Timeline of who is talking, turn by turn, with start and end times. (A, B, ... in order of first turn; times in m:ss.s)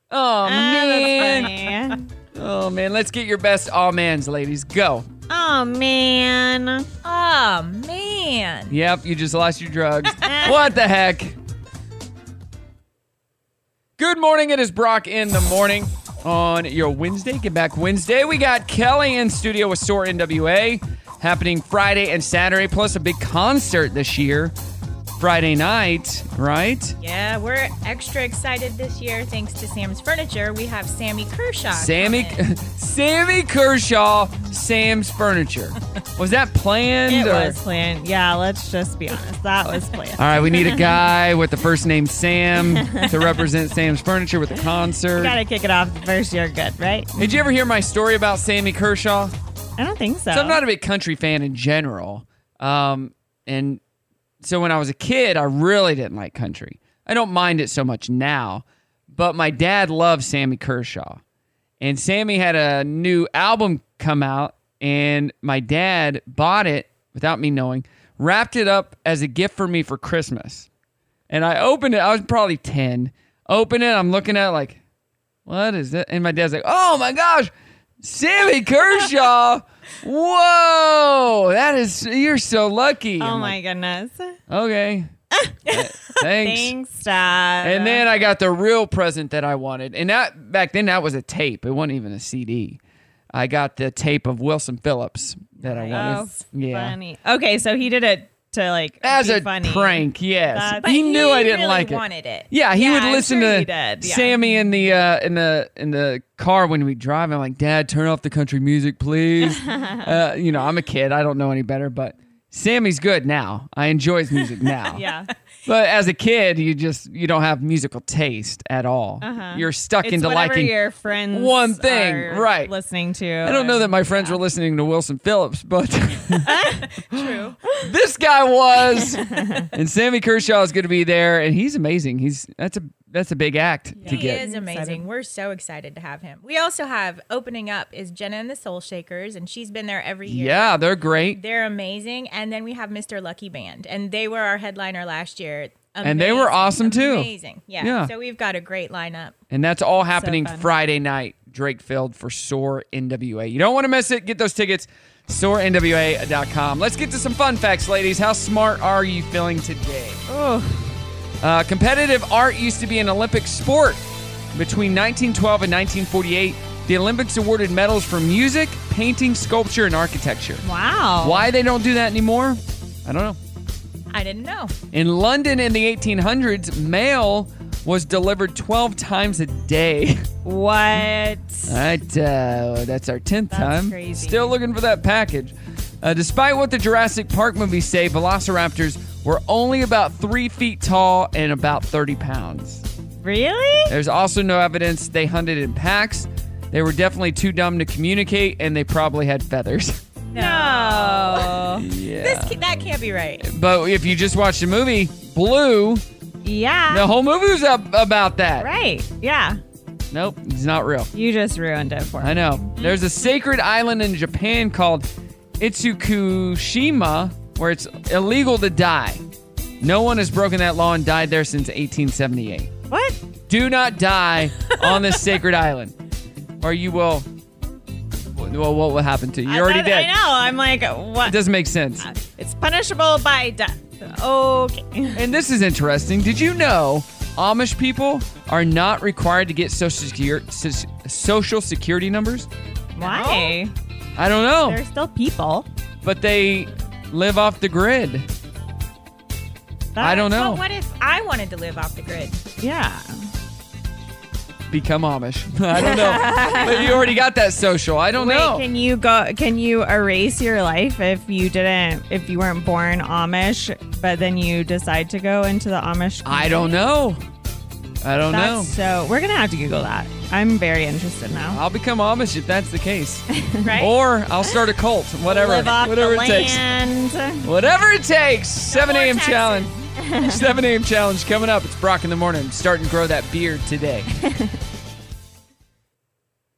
0:00.1-0:01.5 A
0:00.4-0:02.1 B
0:02.3-0:05.1 A
0:05.3-0:06.9 B
0:07.0-0:08.7 C
0:08.7-0:11.4 A
0:10.2-0:10.6 B
0:14.0-0:24.5 A
0:25.2-0:27.0 A
0:27.0-0:32.4 C
0:31.7-0:37.6 A
0:37.1-0:41.0 B
0:40.2-0:45.4 A
0:42.6-0:43.3 B
0:45.1-0:47.5 B
0:47.2-0:49.3 A
0:49.8-0:50.6 B
0:50.3-0:53.8 A
0:54.4-1:01.2 A
1:01.8-1:10.7 A
1:11.3-1:14.8 A
1:15.4-1:23.6 A
1:23.2-1:24.4 B
1:24.5-1:25.1 A
1:25.3-1:25.6 B
1:25.6-1:26.7 A
1:26.2-1:28.0 B
1:27.6-1:32.8 A
1:33.3-1:37.0 A
1:35.6-1:36.3 C
1:35.9-1:40.9 B
1:39.0-1:55.0 A
1:40.8-1:42.5 C
1:42.7-1:44.4 B
1:49.4-1:50.1 B
1:54.9-1:55.3 B
1:55.6-2:00.8 A
1:59.2-2:04.4 B
2:01.3-2:02.7 A
2:03.4-2:06.5 A
2:06.4-2:06.9 B
2:06.9-2:07.6 C
2:07.8-2:14.4 A
2:08.9-2:09.7 B
2:14.0-2:15.0 B
2:14.0-2:29.4 C
2:20.3-2:21.4 A
2:26.0-2:28.1 A
2:29.5-2:40.2 A
2:30.1-2:30.7 B
2:40.3-2:41.0 B
2:41.4-2:44.0 A
2:44.5-2:50.6 A
2:50.6-2:51.5 B
2:51.2-2:53.4 A
2:54.1-2:54.7 C
2:54.9-3:00.2 A
3:00.4-3:01.8 B
3:01.7-3:12.8 A
3:03.5-3:04.6 B
3:13.2-3:13.9 B
3:13.9-3:20.0 A
3:20.3-3:23.4 C
3:20.3-3:21.8 B
3:21.8-3:22.6 A
3:23.4-3:26.0 A
3:26.4-3:27.1 B
3:26.9-3:28.7 A
3:28.6-3:29.6 B
3:30.1-3:31.1 A
3:31.1-3:32.7 B
3:32.2-3:35.1 A
3:35.6-3:39.2 A
3:39.8-3:42.7 A
3:42.9-3:43.2 B
3:43.5-3:45.9 A
3:46.6-3:47.3 A
3:48.3-3:50.1 A
3:49.4-3:51.4 B
3:51.2-3:52.1 A
3:52.0-3:55.3 B
3:55.1-4:02.5 A
4:02.9-4:03.7 B
4:03.0-4:03.6 C
4:04.2-4:04.8 A
4:04.6-4:05.7 B
4:06.0-4:08.3 A
4:09.9-4:10.4 B
4:10.0-4:10.6 A
4:10.2-4:12.4 C
4:12.6-4:13.3 B
4:14.7-4:18.6 A
4:15.7-4:17.2 B
4:18.1-4:26.8 B
4:26.2-4:27.2 A
4:28.0-4:28.7 A
4:28.3-4:31.6 B
4:31.5-4:33.2 A
4:33.3-4:33.8 B
4:33.6-4:33.9 C
4:33.8-4:36.6 A
4:35.2-4:37.5 B
4:37.4-4:44.1 A
4:38.7-4:40.0 C
4:40.0-4:40.5 B
4:44.1-4:44.6 B